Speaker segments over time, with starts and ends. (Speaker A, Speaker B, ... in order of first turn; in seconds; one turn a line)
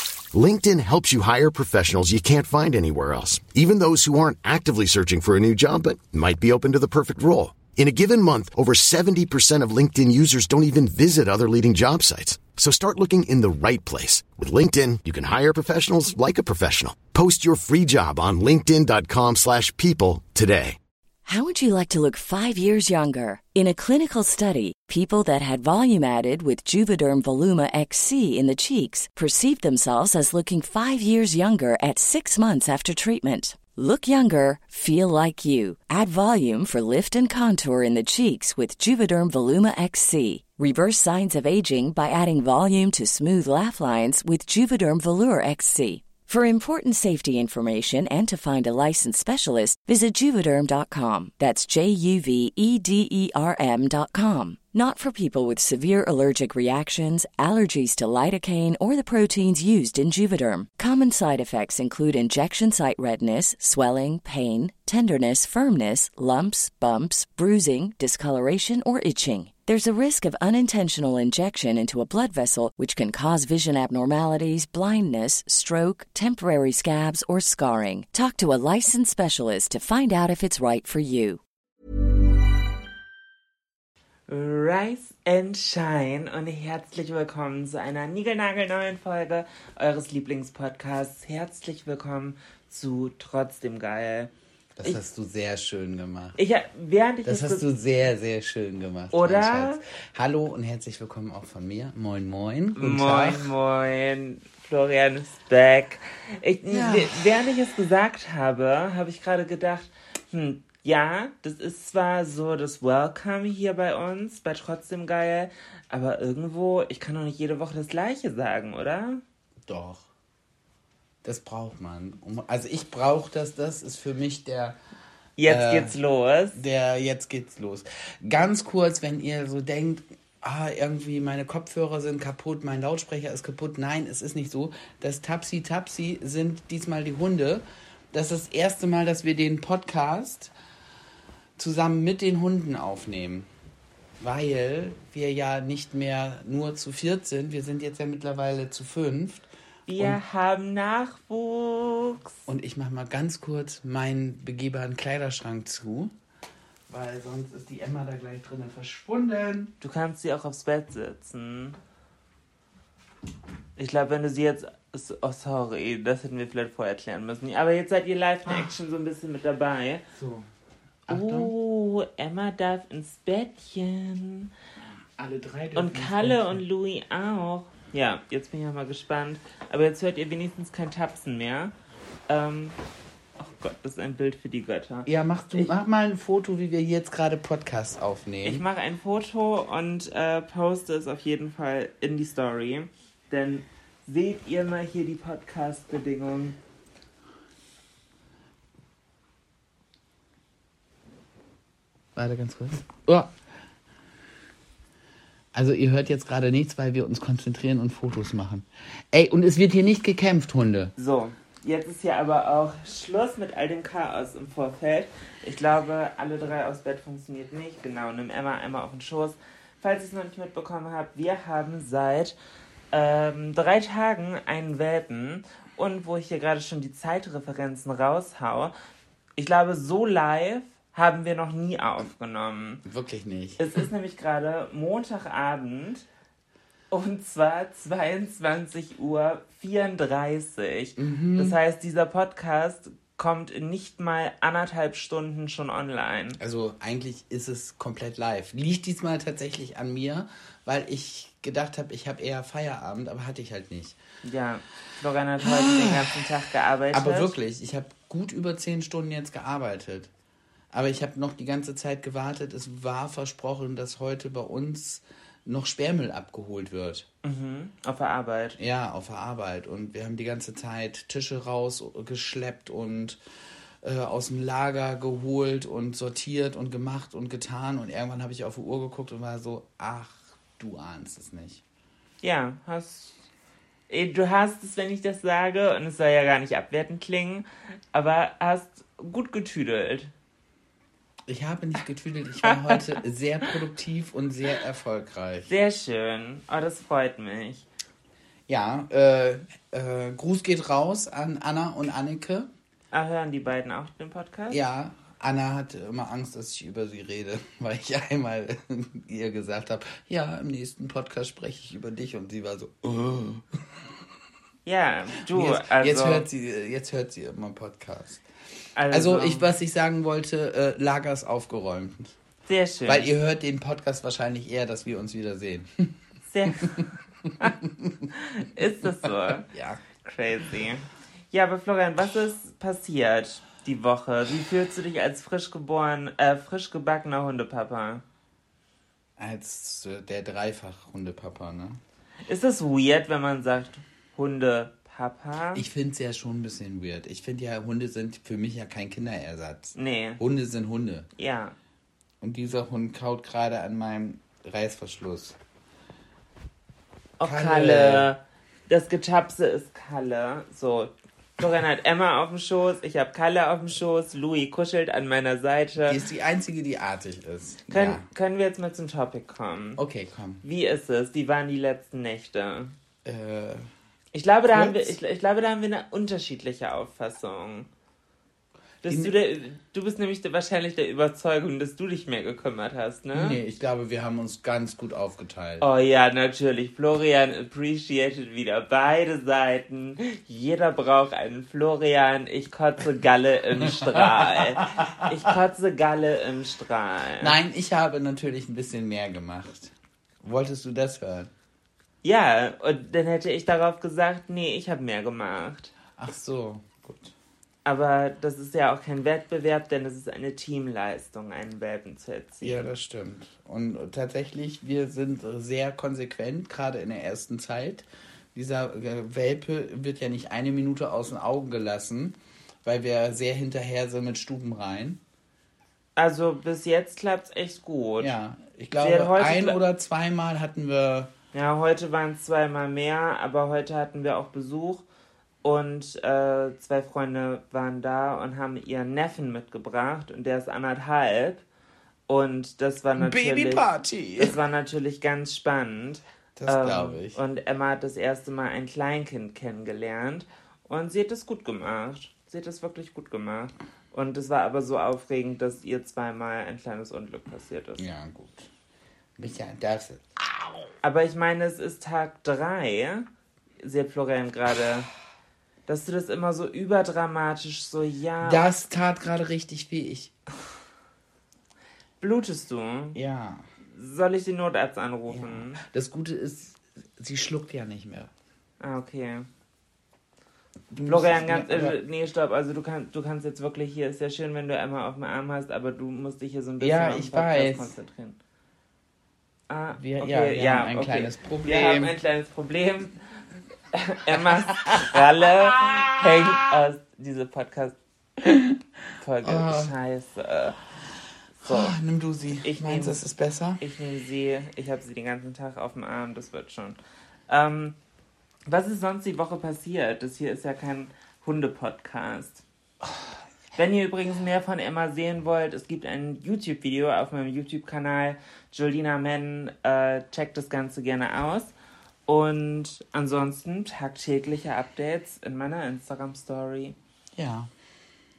Speaker A: 0.3-20.8
Speaker B: 21.3-81.4
Speaker C: 84.3-94.3
Speaker D: 94.8-96.4
Speaker C: 96.4-97.6
Speaker D: 97.2-103.5
Speaker C: 99.1-99.8
Speaker C: 102.8-119.2
Speaker D: 106.7-107.2
Speaker D: 119.7-120.1
Speaker D: 121.2-124.8
Speaker C: 125.4-126.6
Speaker D: 125.5-126.0
Speaker D: 126.5-140.5
Speaker D: 141.6-143.5
Speaker D: 144.2-150.2
Speaker C: 149.9-152.3
Speaker D: 152.5-156.1
Speaker D: 156.9-159.7
Speaker C: 159.8-161.8
Speaker C: 163.8-170.0
Speaker D: 170.1-170.5
Speaker D: 171.1-171.5
Speaker C: 171.1-174.5
Speaker D: 175.2-176.6
Speaker C: 175.8-181.7
Speaker C: 182.3-182.8
Speaker C: 183.4-185.7
Speaker D: 185.1-188.6
Speaker C: 188.4-196.6
Speaker D: 202.2-203.3
Speaker D: 205.5-210.9
Speaker C: 211.0-222.3
Speaker C: 222.9-228.7
Speaker C: 229.4-232.8
Speaker D: 232.8-233.8
Speaker C: 233.6-236.1
Speaker C: 236.9-246.4
Speaker D: 241.0-241.6
Speaker D: 246.4-254.0
Speaker C: 254.2-257.4
Speaker D: 255.4-256.2
Speaker D: 256.9-260.1
Speaker D: 260.7-267.1
Speaker C: 267.2-268.6
Speaker D: 268.6-273.2
Speaker D: 273.8-281.6
Speaker C: 282.2-283.2
Speaker C: 283.9-290.1
Speaker D: 291.3-295.5
Speaker C: 292.5-293.0
Speaker C: 295.5-297.7
Speaker D: 298.5-302.5
Speaker C: 302.9-304.6
Speaker D: 304.5-313.8
Speaker C: 314.6-316.3
Speaker D: 315.3-318.2
Speaker C: 318.8-319.5
Speaker D: 318.9-322.2
Speaker C: 322.5-323.1
Speaker D: 322.9-326.0
Speaker C: 326.3-327.5
Speaker D: 327.2-328.1
Speaker C: 328.2-329.5
Speaker D: 329.5-329.8
Speaker C: 330.0-338.0
Speaker D: 339.2-341.8
Speaker C: 342.3-345.6
Speaker D: 345.5-351.1
Speaker C: 349.8-350.2
Speaker C: 351.2-351.6
Speaker D: 352.2-355.4
Speaker C: 357.2-366.0
Speaker D: 357.2-358.1
Speaker D: 365.9-368.0
Speaker C: 367.7-369.8
Speaker D: 369.8-370.4
Speaker C: 370.4-372.7
Speaker D: 373.1-373.7
Speaker C: 374.1-377.7
Speaker D: 374.5-375.0
Speaker D: 378.8-379.1
Speaker C: 378.8-383.4
Speaker D: 383.1-385.7
Speaker C: 385.6-397.4
Speaker D: 393.6-395.0
Speaker D: 397.2-401.3
Speaker C: 402.0-405.7
Speaker D: 406.0-407.1
Speaker C: 407.6-412.7
Speaker D: 412.4-425.0
Speaker C: 426.0-428.1
Speaker D: 428.0-431.1
Speaker C: 428.8-429.6
Speaker C: 431.3-434.8
Speaker C: 435.4-441.4
Speaker C: 442.1-443.6
Speaker D: 443.0-444.4
Speaker C: 444.2-457.8
Speaker D: 446.4-447.2
Speaker D: 457.8-458.5
Speaker D: 459.2-460.6
Speaker C: 460.8-463.1
Speaker C: 463.6-464.9
Speaker C: 465.7-468.5
Speaker D: 468.2-470.1
Speaker C: 472.0-473.0
Speaker D: 472.9-473.4
Speaker C: 473.7-475.6
Speaker D: 475.1-478.1
Speaker C: 478.6-479.3
Speaker D: 480.7-481.8
Speaker C: 480.9-488.2
Speaker D: 486.6-487.7
Speaker C: 489.5-493.0
Speaker D: 489.8-491.9
Speaker C: 493.7-497.8
Speaker D: 494.6-495.0
Speaker D: 495.6-496.4
Speaker D: 498.2-498.6
Speaker C: 499.0-500.6
Speaker D: 499.2-499.7
Speaker C: 501.4-501.8
Speaker D: 501.4-503.6
Speaker C: 502.4-503.0
Speaker C: 503.6-506.8
Speaker C: 507.3-507.8
Speaker C: 508.5-512.4
Speaker C: 513.6-521.5
Speaker C: 522.1-526.8
Speaker D: 527.1-527.5